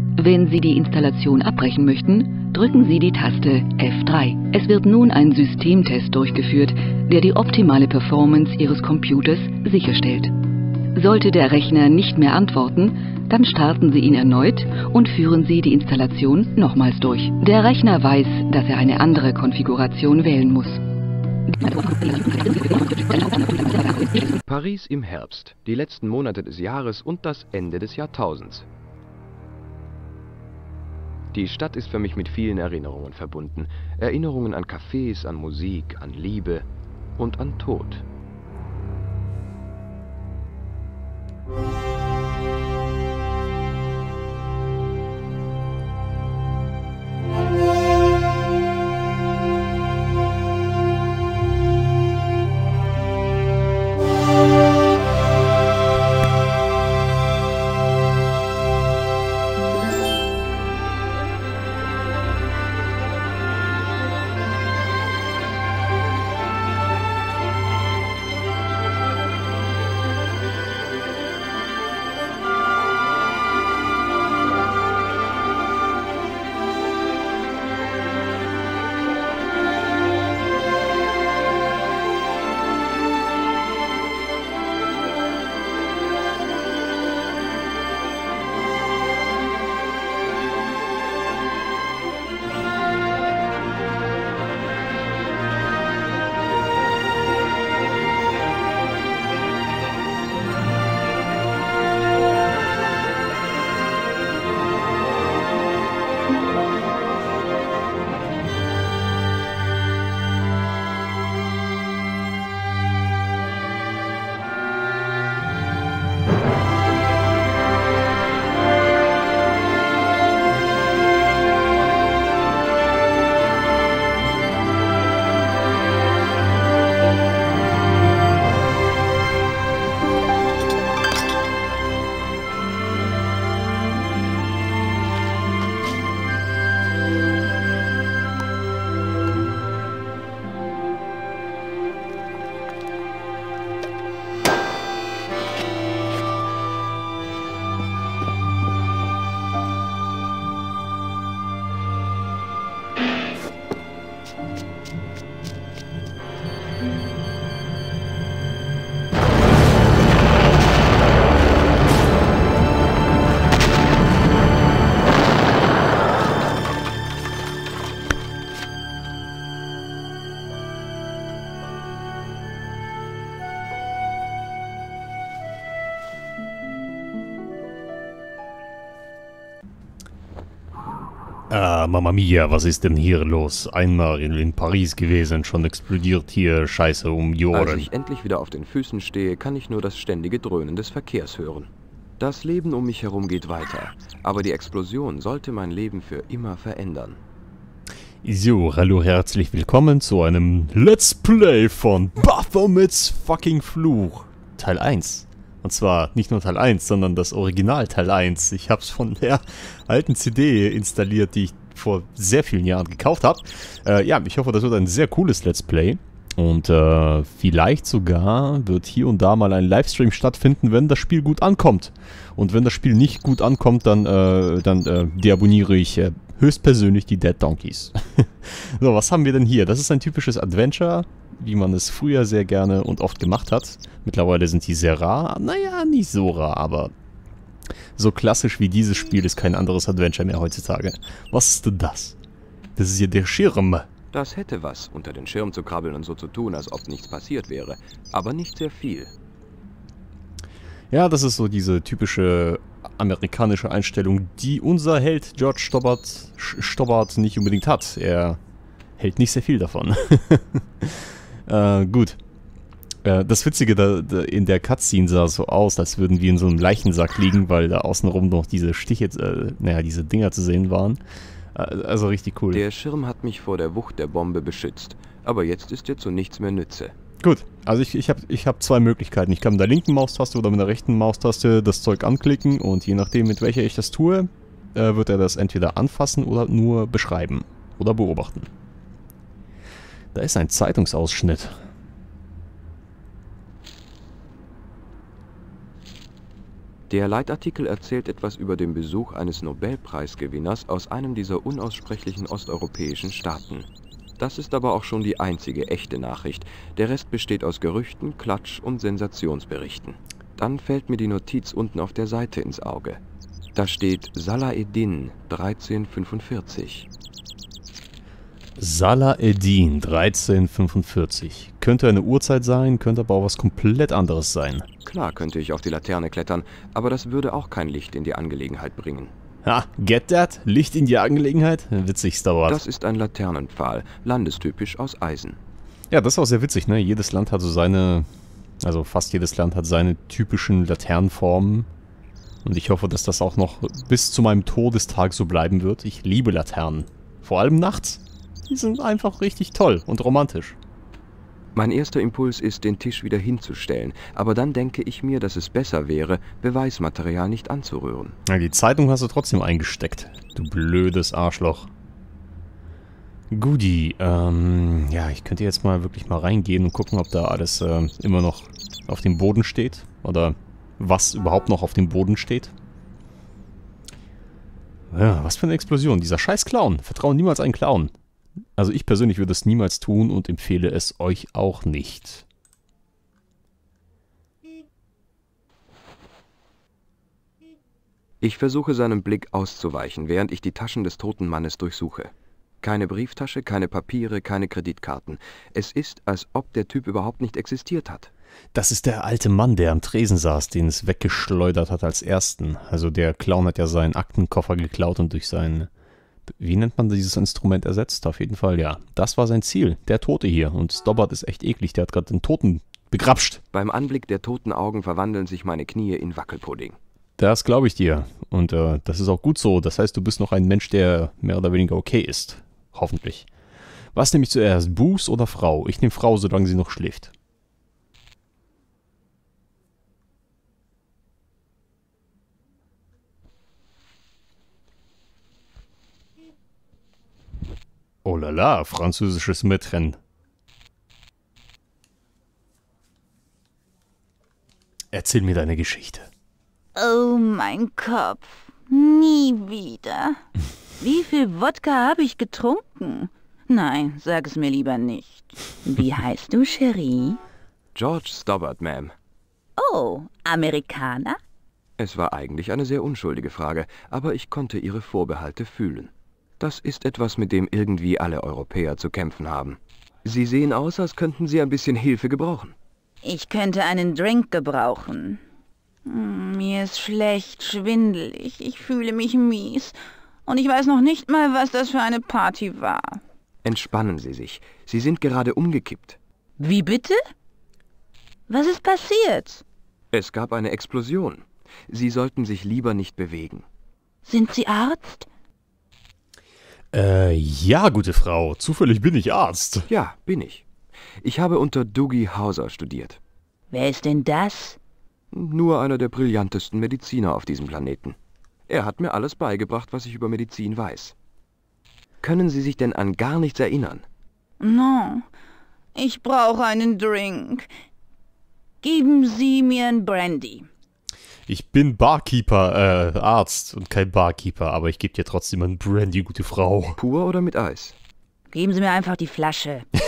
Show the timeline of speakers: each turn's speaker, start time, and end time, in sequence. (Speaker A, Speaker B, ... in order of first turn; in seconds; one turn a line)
Speaker A: 0.1-10.3
Speaker A: 10.9-20.8
Speaker A: 21.5-24.4
Speaker B: 24.4-28.6
Speaker B: 31.3-36.6
Speaker B: 37.2-38.0
Speaker C: 181.5-187.9
Speaker B: 187.5-197.2
Speaker C: 198.2-236.9
Speaker C: 237.9-242.2
Speaker C: 242.8-243.9
Speaker B: 244.1-249.1
Speaker C: 250.9-258.4
Speaker C: 259.0-262.2
Speaker C: 263.0-271.0
Speaker C: 271.5-272.6
Speaker B: 272.5-276.9
Speaker C: 277.2-288.5
Speaker C: 290.1-291.6
Speaker B: 296.9-303.7
Speaker B: 304.2-313.0
Speaker B: 313.5-316.9
Speaker C: 318.6-324.7
Speaker B: 324.8-329.1
Speaker C: 329.4-332.6
Speaker B: 332.5-335.4
Speaker C: 335.9-338.1
Speaker C: 338.6-341.7
Speaker C: 342.4-350.6
Speaker B: 351.5-358.1
Speaker C: 358.2-361.7
Speaker C: 363.3-372.5
Speaker C: 374.9-377.9
Speaker C: 378.6-382.2
Speaker B: 388.2-398.1
Speaker C: 398.5-405.7
Speaker C: 406.3-413.4
Speaker B: 413.5-416.8
Speaker C: 417.2-423.3
Speaker C: 423.9-427.1
Speaker C: 438.0-440.0
Speaker C: 444.9-446.1
Speaker D: 446.7-450.2
Speaker D: 450.8-457.2
Speaker B: 457.7-458.9
Speaker D: 459.6-461.2
Speaker B: 461.8-472.5
Speaker D: 473.0-475.2
Speaker D: 475.9-483.0
Speaker B: 483.4-486.0
Speaker D: 486.4-487.0
Speaker D: 488.3-489.4
Speaker B: 489.9-493.4
Speaker D: 494.1-495.1
Speaker C: 496.7-499.7
Speaker B: 499.7-500.4
Speaker B: 501.0-503.0
Speaker D: 503.5-504.6
Speaker B: 505.1-507.9
Speaker B: 508.5-510.9
Speaker B: 512.0-513.8
Speaker D: 514.4-515.1
Speaker D: 515.7-517.5
Speaker D: 518.6-520.5
Speaker C: 521.3-526.8
Speaker B: 526.8-527.8
Speaker D: 528.3-529.7